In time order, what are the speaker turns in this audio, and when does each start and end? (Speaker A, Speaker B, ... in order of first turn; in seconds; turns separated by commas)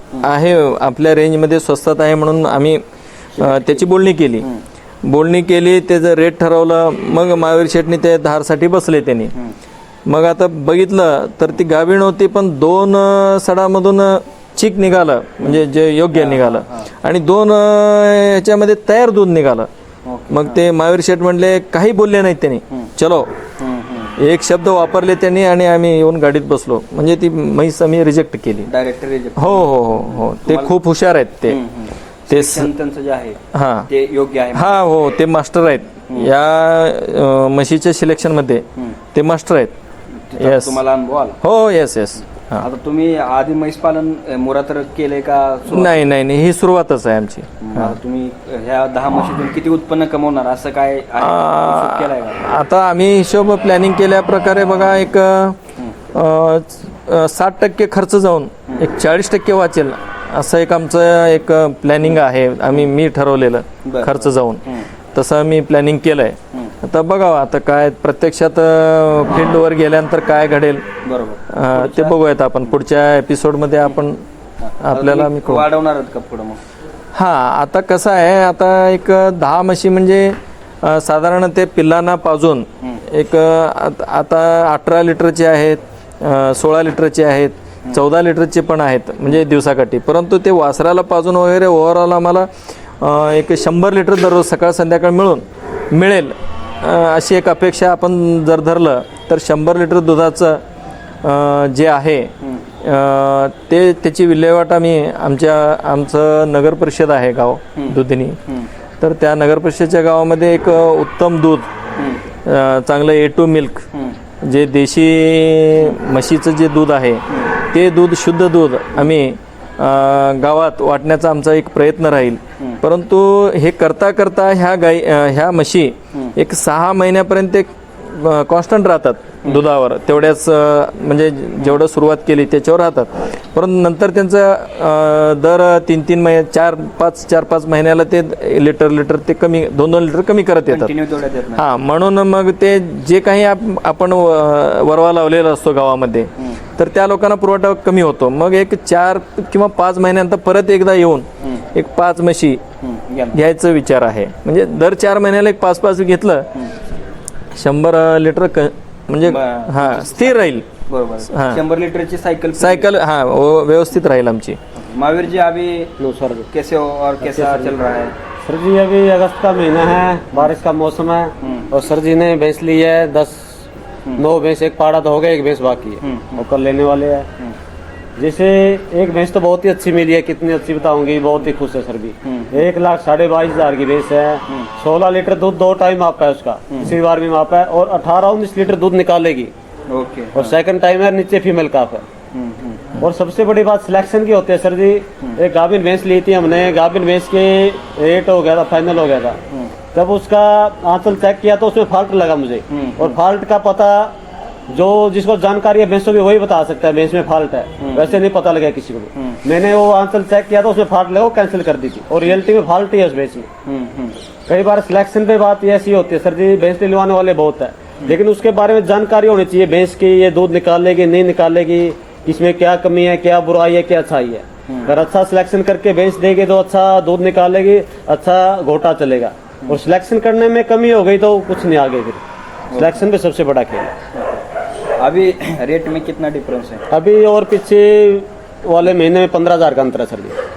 Speaker A: 0.2-2.8, Speaker B: 3.3-3.9, Speaker A: 3.4-4.5, Speaker A: 5.0-9.3, Speaker A: 10.1-19.7, Speaker B: 15.4-16.9, Speaker B: 20.1-20.6, Speaker A: 20.3-23.3, Speaker B: 23.6-24.2, Speaker A: 24.2-28.7, Speaker B: 28.7-30.8, Speaker A: 29.4-31.6, Speaker B: 31.5-34.8, Speaker A: 32.3-32.7, Speaker A: 33.5-33.9, Speaker A: 34.5-39.7, Speaker B: 40.1-41.4, Speaker A: 40.4-40.8, Speaker A: 41.4-42.7, Speaker B: 42.6-46.0, Speaker A: 45.7-48.0, Speaker B: 47.6-52.5, Speaker A: 51.2-55.6, Speaker A: 56.1-70.9, Speaker B: 63.9-64.9, Speaker B: 71.0-72.2, Speaker A: 71.5-74.2, Speaker B: 74.6-76.6, Speaker A: 74.8-75.7, Speaker A: 77.1-100.6, Speaker A: 101.2-108.4, Speaker B: 107.8-108.7, Speaker A: 109.0-111.7, Speaker B: 112.0-112.2, Speaker A: 112.5-113.9, Speaker A: 114.4-140.9, Speaker B: 117.3-117.5, Speaker B: 140.7-141.7, Speaker A: 141.6-152.6, Speaker B: 152.8-153.4, Speaker A: 153.3-156.5, Speaker A: 157.5-160.7, Speaker B: 159.2-162.9, Speaker A: 161.3-161.6, Speaker A: 162.6-164.6, Speaker B: 164.8-165.9, Speaker C: 166.0-166.5, Speaker B: 166.5-168.1, Speaker C: 167.2-167.8, Speaker C: 168.4-173.7, Speaker B: 171.4-171.7, Speaker C: 174.2-177.3, Speaker B: 176.0-176.4, Speaker C: 178.2-189.5, Speaker B: 182.2-182.6, Speaker B: 189.9-190.6, Speaker C: 190.3-192.1, Speaker B: 192.3-192.9, Speaker C: 193.0-199.4, Speaker C: 199.9-204.2, Speaker B: 202.7-203.2, Speaker C: 204.7-213.5, Speaker B: 207.8-208.2, Speaker B: 213.7-214.2, Speaker C: 214.5-232.2, Speaker B: 232.7-233.0, Speaker C: 232.7-233.9, Speaker B: 234.1-234.4, Speaker B: 235.0-236.8, Speaker C: 236.9-240.4